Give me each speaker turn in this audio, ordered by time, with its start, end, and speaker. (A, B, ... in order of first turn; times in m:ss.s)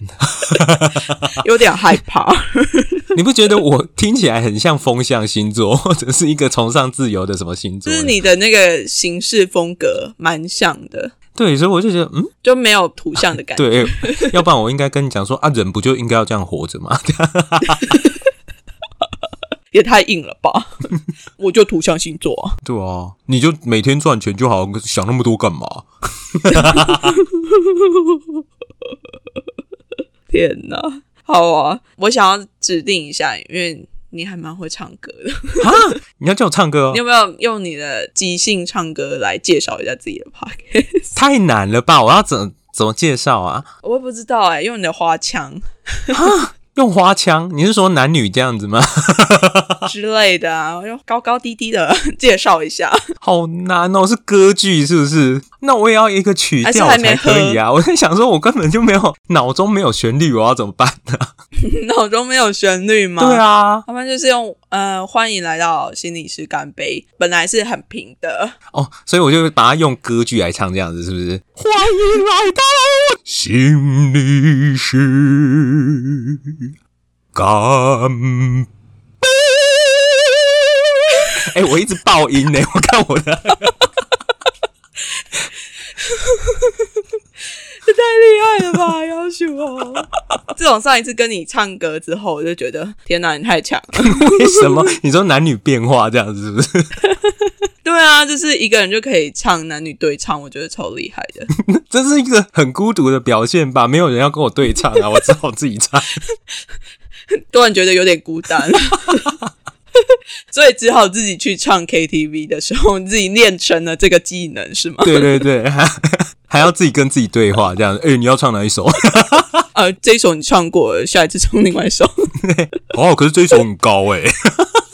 0:00.2-0:01.4 A
0:01.3-0:03.1 B
0:03.1-0:08.2 A
0:07.8-0:11.1 B
0:11.4-0:12.3 A
0:12.4-0:14.3 B
0:13.6-0:18.1 A
0:19.7-0:20.7 B
0:21.4-0:22.6 B
0:22.6-0:27.2 A
0:26.5-0:28.4 B
0:30.3-0:35.9 B
0:35.6-0:37.0 A
0:36.9-0:41.2 B
0:41.2-0:43.7 A
0:43.8-0:46.3 B
0:46.1-0:49.9 A
0:49.9-0:53.0 B
0:53.2-1:01.3 A
0:56.6-0:57.6 B
1:01.6-1:08.6 B
1:03.2-1:03.8 A
1:08.7-1:16.4 A
1:17.4-1:18.7 A
1:21.3-1:23.8 A
1:26.0-1:27.0 B
1:27.8-1:34.7 B
1:34.0-1:36.9 A
1:37.2-1:41.5 B
1:41.6-1:46.2 A
1:47.3-1:49.3 B
1:50.0-1:55.3 B
1:55.0-1:59.6 A
1:59.7-2:02.1 B
2:02.4-2:04.8 A